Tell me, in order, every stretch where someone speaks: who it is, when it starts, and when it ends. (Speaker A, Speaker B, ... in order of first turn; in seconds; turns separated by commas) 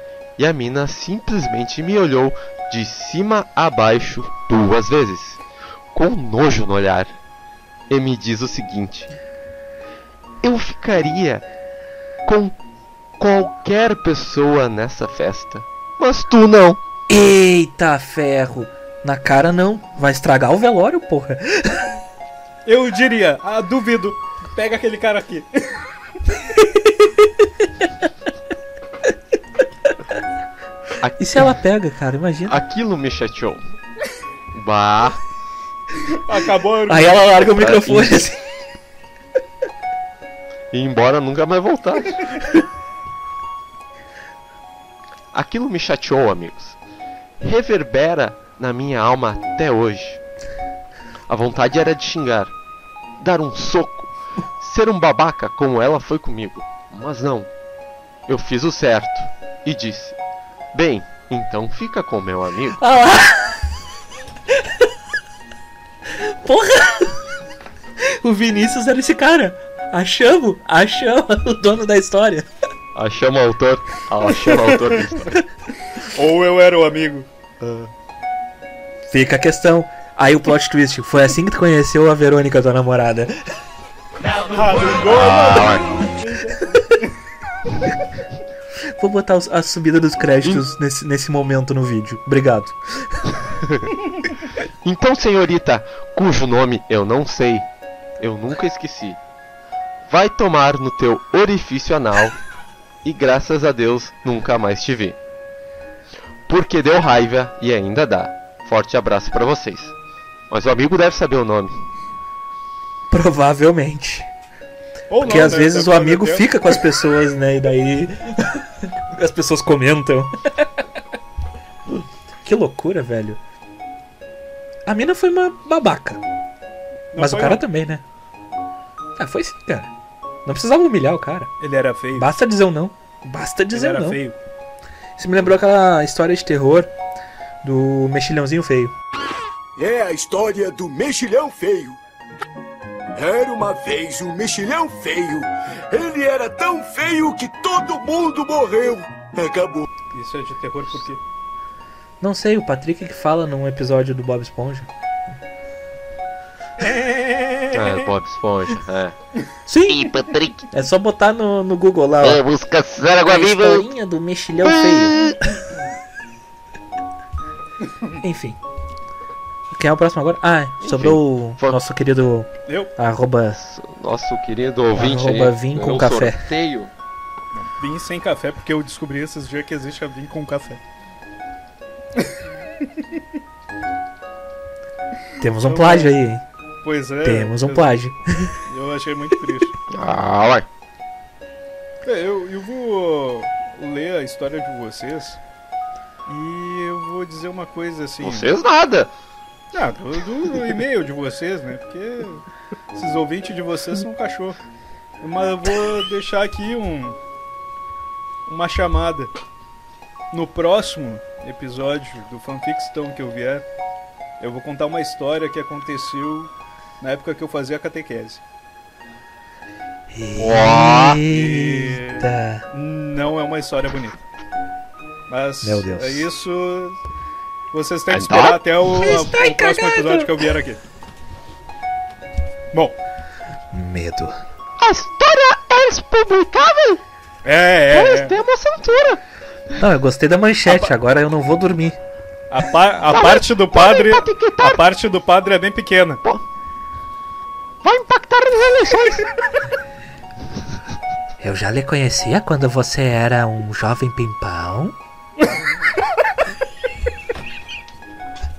Speaker A: 0.4-5.4, Speaker A: 5.9-7.2, Speaker A: 7.9-9.1, Speaker A: 10.4-11.4, Speaker A: 12.3-12.6, Speaker A: 13.2-16.8, Speaker B: 17.1-21.9, Speaker C: 22.6-25.7, Speaker A: 31.0-31.4, Speaker B: 31.2-32.6, Speaker A: 32.5-33.6, Speaker A: 34.5-35.2, Speaker C: 36.2-37.4, Speaker B: 36.9-38.4, Speaker A: 37.4-38.2, Speaker A: 40.7-42.3, Speaker A: 45.3-46.8, Speaker A: 47.4-50.2, Speaker A: 51.3-52.5, Speaker A: 53.2-54.1, Speaker A: 54.6-57.5, Speaker A: 58.3-60.2, Speaker A: 60.7-62.8, Speaker B: 62.8-63.6, Speaker B: 66.2-67.2, Speaker B: 68.2-72.5, Speaker A: 73.0-75.3, Speaker C: 76.1-77.9, Speaker B: 79.1-83.3, Speaker C: 84.3-86.7, Speaker A: 85.1-85.9, Speaker B: 89.0-92.8, Speaker A: 94.8-97.7, Speaker A: 98.2-99.2, Speaker A: 100.1-102.4, Speaker A: 103.0-105.2, Speaker A: 106.5-110.0, Speaker A: 110.5-111.8, Speaker B: 113.1-114.3, Speaker C: 115.1-116.8, Speaker B: 115.2-120.3, Speaker B: 122.4-123.4, Speaker B: 124.9-126.2, Speaker C: 127.1-127.6, Speaker B: 127.2-128.0, Speaker B: 129.2-129.9, Speaker B: 130.4-131.5, Speaker C: 131.6-132.3, Speaker B: 132.1-134.2, Speaker C: 133.7-134.4, Speaker B: 135.2-136.9, Speaker B: 137.6-138.9, Speaker D: 139.8-142.0, Speaker D: 143.2-149.9, Speaker C: 150.1-151.2, Speaker B: 152.2-154.9, Speaker C: 156.8-157.9, Speaker A: 157.7-159.2, Speaker B: 159.7-160.1, Speaker A: 159.9-160.6, Speaker B: 160.7-162.4, Speaker A: 162.2-163.9, Speaker B: 163.2-165.6, Speaker A: 164.8-165.3, Speaker B: 168.2-168.6, Speaker B: 169.7-173.6, Speaker A: 170.8-171.8, Speaker C: 172.7-172.9, Speaker A: 173.6-176.9, Speaker B: 174.9-176.4, Speaker C: 177.6-180.8, Speaker C: 182.2-183.2, Speaker B: 185.4-186.4, Speaker C: 185.6-186.2, Speaker C: 186.8-188.0, Speaker B: 187.2-188.6, Speaker C: 188.7-189.7, Speaker A: 189.9-190.7, Speaker C: 192.0-195.4, Speaker C: 196.3-198.5, Speaker A: 198.2-199.1, Speaker C: 199.7-204.6, Speaker C: 205.2-207.2, Speaker C: 208.5-209.3, Speaker C: 210.3-213.7, Speaker C: 214.4-218.4, Speaker B: 220.1-222.6, Speaker A: 220.4-221.2, Speaker C: 221.3-224.2, Speaker C: 225.3-227.0, Speaker B: 225.6-226.3, Speaker C: 227.7-230.8, Speaker A: 228.1-229.2, Speaker B: 229.3-230.2, Speaker C: 232.7-233.0, Speaker B: 233.7-234.4, Speaker A: 234.8-237.0, Speaker C: 237.4-238.4, Speaker A: 237.9-239.2, Speaker B: 239.8-242.0, Speaker C: 240.7-240.9, Speaker C: 242.5-246.2, Speaker A: 243.1-244.9, Speaker A: 247.8-249.2, Speaker B: 251.4-254.9